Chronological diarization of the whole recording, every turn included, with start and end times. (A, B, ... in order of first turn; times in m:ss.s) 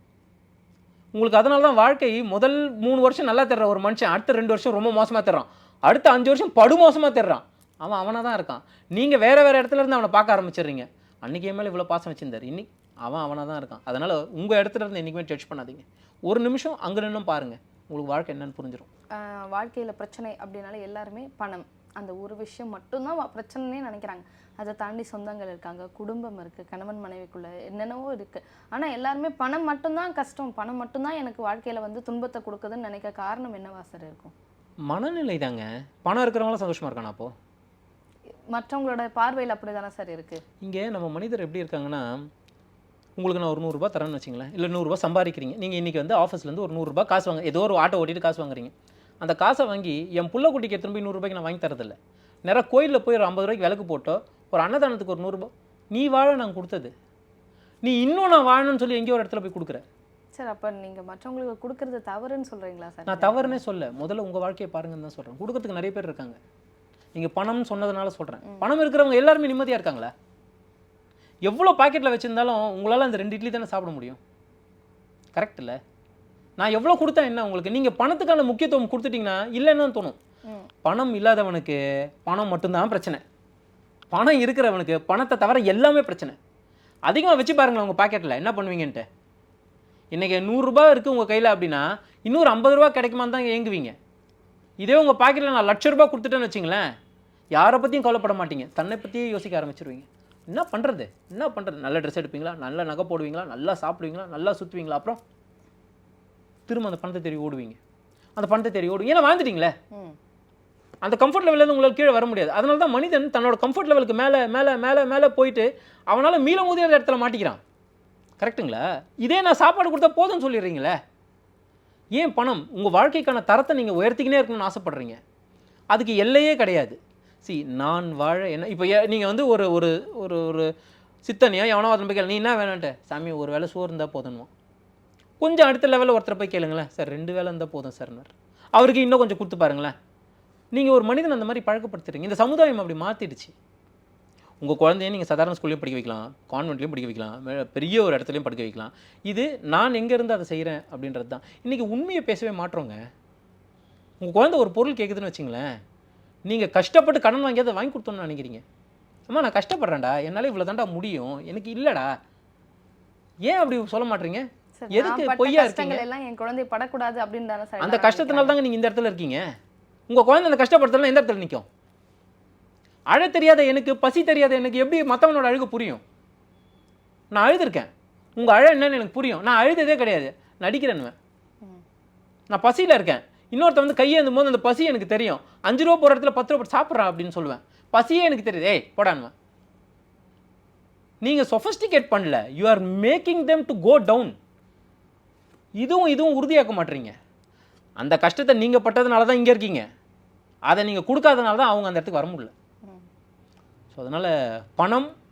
0:01.1-0:18.9 A
0:19.2-0:34.3 B
0:34.9-0:37.3 A
0:38.5-0:40.4 B
0:40.6-0:42.3 A
0:43.2-0:56.9 A
0:57.8-0:59.8 A
1:00.3-1:03.6 B
1:03.1-1:06.4 A
1:07.1-1:10.1 A
1:11.4-1:14.2 A
1:15.3-1:15.8 A
1:16.6-1:20.2 A
1:20.8-1:23.2 A
1:24.1-1:26.4 A
1:27.0-1:29.0 A
1:30.1-1:34.0 A
1:34.8-1:36.8 A
1:37.5-1:45.2 A
1:46.7-1:47.8 A
1:48.4-1:49.7 A
1:51.0-1:57.6 A
1:58.4-2:01.0 A
2:02.2-2:05.2 A
2:05.9-2:10.7 A
2:11.2-2:14.5 A
2:15.4-2:19.9 A
2:20.7-2:23.5 A
2:24.6-2:33.0 A
2:34.2-2:35.7 A
2:36.5-2:38.6 A
2:39.3-2:42.1 A
2:43.4-2:46.0 A
2:44.8-2:48.6 B
2:47.8-2:49.4 A
2:50.1-2:51.6 A
2:53.1-2:56.0 A
2:57.3-3:01.1 A
3:02.5-3:09.3 A
3:11.2-3:14.3 A
3:15.8-3:17.2 A
3:18.0-3:19.8 A
3:20.7-3:22.5 A
3:23.9-3:25.1 A